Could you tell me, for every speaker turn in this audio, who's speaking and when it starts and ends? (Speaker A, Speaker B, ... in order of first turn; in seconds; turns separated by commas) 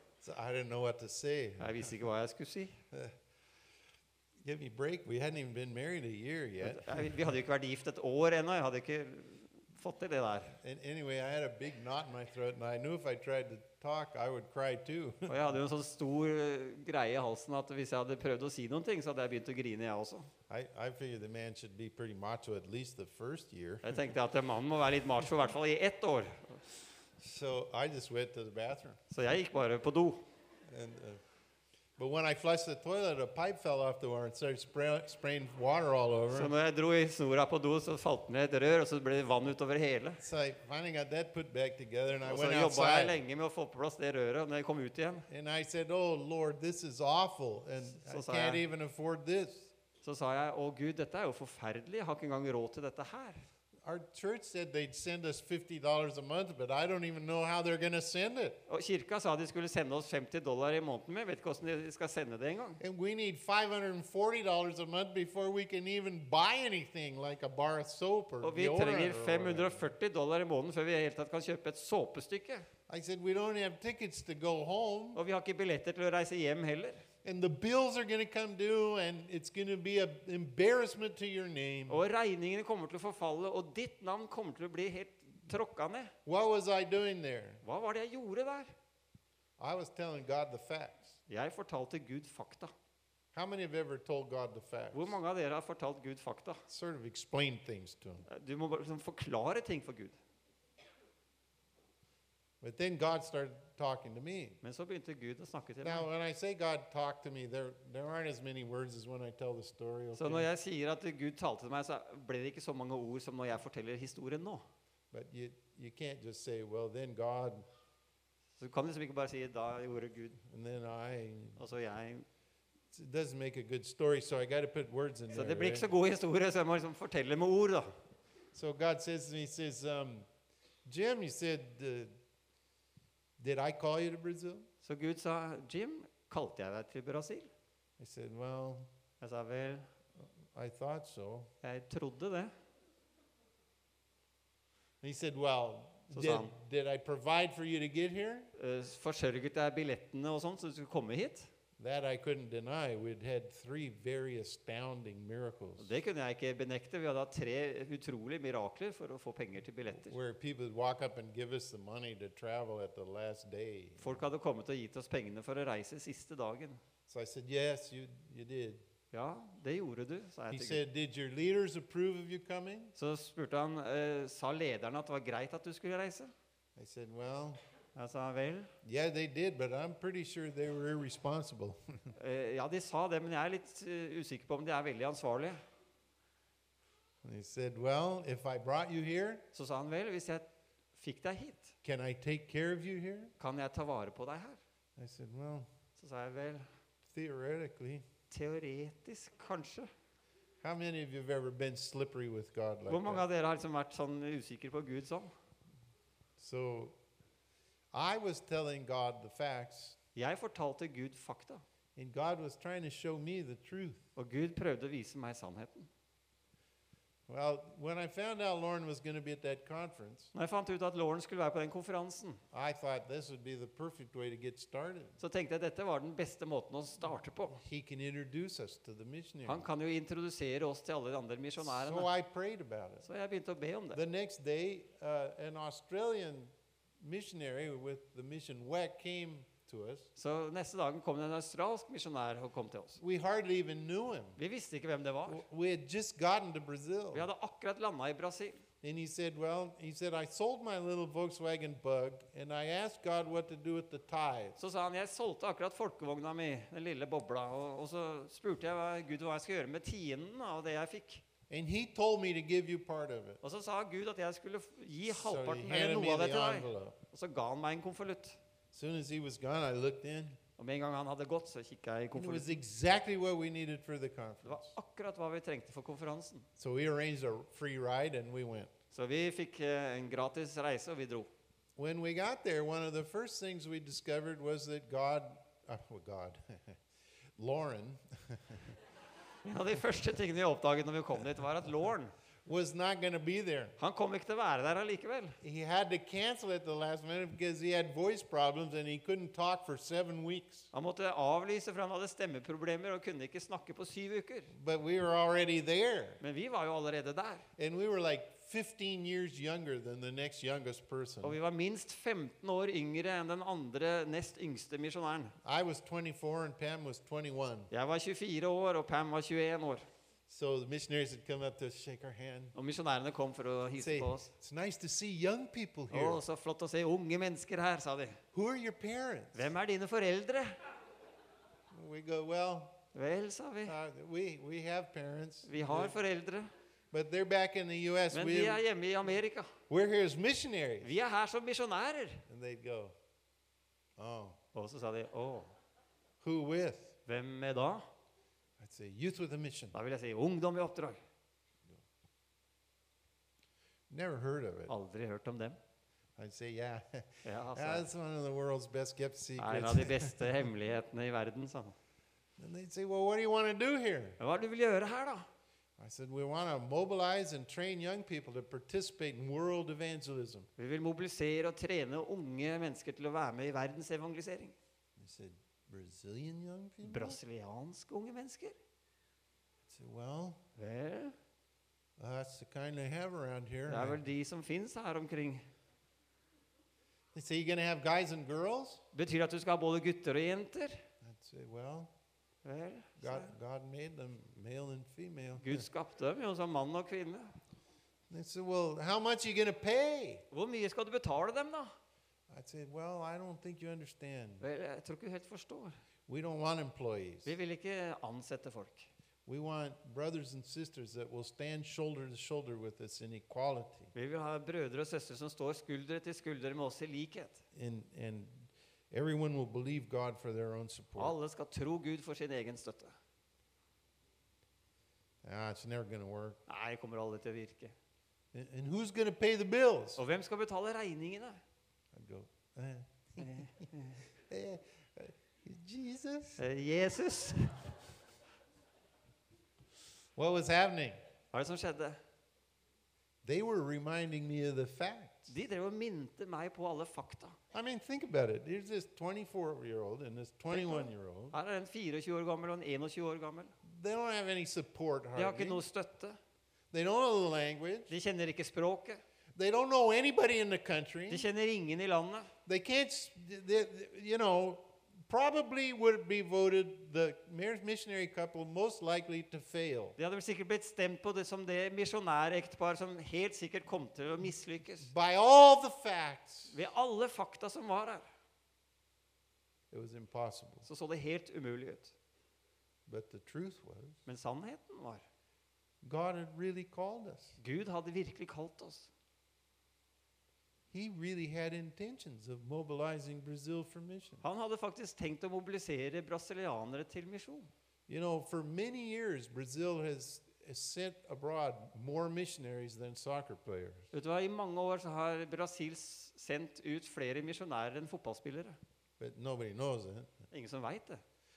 Speaker A: 0.2-2.0, Speaker B: 1.6-2.8, Speaker A: 4.4-7.0, Speaker B: 6.6-10.6, Speaker A: 10.6-15.3, Speaker B: 15.2-20.3, Speaker A: 20.5-24.0, Speaker B: 23.8-26.6, Speaker A: 27.2-29.0, Speaker B: 29.1-30.2, Speaker A: 30.7-31.2, Speaker A: 32.0-36.5, Speaker B: 36.3-40.2, Speaker A: 40.2-43.2, Speaker B: 42.2-45.2, Speaker A: 45.3-49.6, Speaker B: 47.9-48.6, Speaker B: 50.0-53.4, Speaker A: 53.8-58.6, Speaker B: 58.7-62.8, Speaker A: 62.8-69.9, Speaker B: 68.4-72.7, Speaker A: 72.9-75.2, Speaker B: 75.1-77.0, Speaker A: 77.2-82.0, Speaker B: 81.9-86.1, Speaker A: 86.2-87.6, Speaker B: 87.6-88.7, Speaker A: 89.6-91.2, Speaker B: 91.3-92.7, Speaker A: 93.3-95.2, Speaker B: 94.9-96.6, Speaker A: 96.7-98.3, Speaker B: 98.3-100.2, Speaker A: 102.6-104.6, Speaker B: 104.6-106.1, Speaker A: 105.8-110.5, Speaker B: 110.1-114.6, Speaker A: 115.1-117.6, Speaker B: 118.6-120.4, Speaker A: 120.5-121.6, Speaker B: 121.6-122.2, Speaker A: 122.9-125.9, Speaker B: 125.3-127.9, Speaker A: 128.5-130.3, Speaker A: 130.8-132.1, Speaker A: 133.4-134.7, Speaker B: 134.8-137.5, Speaker A: 138.0-138.9, Speaker B: 139.2-139.9, Speaker A: 140.5-141.5, Speaker B: 141.6-142.5, Speaker A: 145.0-148.5, Speaker B: 146.1-146.5, Speaker B: 148.6-151.5, Speaker A: 151.8-155.9, Speaker B: 155.8-160.1, Speaker A: 159.9-164.2, Speaker B: 164.0-166.8, Speaker A: 167.1-168.8, Speaker B: 169.1-170.8, Speaker A: 170.5-172.9, Speaker B: 172.9-176.3, Speaker A: 176.8-177.6, Speaker B: 177.9-178.7, Speaker A: 178.8-181.8, Speaker B: 182.1-185.6, Speaker A: 187.2-189.4, Speaker B: 189.5-191.7, Speaker A: 191.8-193.3, Speaker B: 193.4-194.6, Speaker A: 194.9-195.7, Speaker B: 195.9-196.7, Speaker A: 197.1-198.0, Speaker B: 198.3-199.9, Speaker A: 200.6-203.2, Speaker B: 202.9-205.3, Speaker A: 206.4-206.9, Speaker A: 207.9-210.0, Speaker B: 210.1-211.6, Speaker A: 211.9-214.0, Speaker B: 214.2-215.9, Speaker A: 217.3-220.3, Speaker B: 220.3-222.4, Speaker A: 222.5-225.2, Speaker B: 225.2-227.6, Speaker A: 227.6-229.6, Speaker B: 229.4-232.1, Speaker A: 231.6-233.1, Speaker B: 233.0-234.0, Speaker A: 233.9-240.1, Speaker B: 240.2-243.0, Speaker A: 243.0-244.4, Speaker B: 244.4-245.4, Speaker A: 245.3-247.3, Speaker B: 247.1-248.6, Speaker A: 248.8-254.6, Speaker B: 254.6-261.2, Speaker A: 261.5-263.4, Speaker B: 263.4-268.4, Speaker A: 265.1-267.0, Speaker A: 268.7-270.4, Speaker B: 270.6-272.6, Speaker A: 272.1-274.8, Speaker B: 274.4-276.5, Speaker A: 276.6-278.7, Speaker B: 278.9-281.3, Speaker A: 281.8-286.8, Speaker A: 287.4-288.8, Speaker B: 289.4-292.1, Speaker A: 292.4-293.8, Speaker B: 293.8-295.4, Speaker A: 295.4-300.7, Speaker B: 300.7-304.5, Speaker A: 304.5-306.2, Speaker B: 306.2-307.4, Speaker A: 307.6-311.4, Speaker B: 311.2-315.3, Speaker A: 315.4-317.7, Speaker B: 317.7-319.9, Speaker A: 320.3-322.5, Speaker B: 322.5-324.3, Speaker A: 323.8-326.2, Speaker B: 325.9-328.2, Speaker A: 328.3-329.5, Speaker B: 329.3-330.6, Speaker A: 331.7-332.8, Speaker B: 332.9-333.7, Speaker A: 333.6-336.0, Speaker B: 335.4-336.5, Speaker A: 336.9-338.6, Speaker B: 338.1-339.5, Speaker A: 339.7-340.9, Speaker B: 340.8-342.2, Speaker A: 342.3-342.9, Speaker A: 344.0-344.4, Speaker B: 344.5-345.5, Speaker A: 346.2-346.9, Speaker B: 347.1-347.8, Speaker A: 348.6-349.7, Speaker B: 349.7-351.0, Speaker A: 353.9-354.7, Speaker B: 354.7-355.6, Speaker A: 356.2-360.5, Speaker B: 357.2-357.9, Speaker B: 359.4-361.8, Speaker A: 362.4-364.2, Speaker B: 364.2-365.3, Speaker A: 365.8-370.5, Speaker B: 370.6-374.6, Speaker A: 375.0-377.2, Speaker B: 376.8-378.6, Speaker A: 379.7-380.4, Speaker B: 380.6-381.1, Speaker A: 382.0-384.0, Speaker B: 383.7-385.4, Speaker A: 387.1-388.8, Speaker B: 388.9-390.8, Speaker A: 391.0-391.9, Speaker B: 392.4-393.3, Speaker A: 393.0-395.6, Speaker B: 395.4-397.3, Speaker A: 398.1-400.2, Speaker B: 400.3-401.7, Speaker A: 402.3-404.4, Speaker B: 404.4-405.7, Speaker A: 406.1-407.3, Speaker B: 407.2-408.9, Speaker A: 409.2-413.9, Speaker B: 413.9-417.4, Speaker A: 417.5-421.1, Speaker B: 421.0-422.9, Speaker A: 425.2-426.4, Speaker B: 426.5-427.7, Speaker A: 428.3-430.0, Speaker B: 430.0-431.4, Speaker A: 431.9-433.7, Speaker B: 433.2-434.0, Speaker A: 434.2-436.4, Speaker B: 436.4-437.7, Speaker A: 440.1-441.0, Speaker B: 441.3-442.0, Speaker A: 443.2-445.3, Speaker B: 445.3-447.4, Speaker A: 447.5-451.3, Speaker B: 450.5-453.5, Speaker A: 453.6-455.6, Speaker B: 455.1-456.2, Speaker A: 456.7-457.9, Speaker B: 457.9-459.0, Speaker A: 459.3-461.2, Speaker B: 461.1-462.3, Speaker A: 462.4-469.9, Speaker B: 470.0-474.9, Speaker A: 474.8-476.6, Speaker B: 476.5-478.0, Speaker A: 479.7-480.7, Speaker B: 480.6-481.9, Speaker A: 482.9-484.0, Speaker B: 484.1-485.0, Speaker A: 485.8-487.4, Speaker B: 487.4-488.9, Speaker A: 490.7-494.2, Speaker B: 494.2-497.5, Speaker A: 497.9-503.9, Speaker B: 503.9-508.6, Speaker A: 509.0-510.1, Speaker B: 510.3-511.0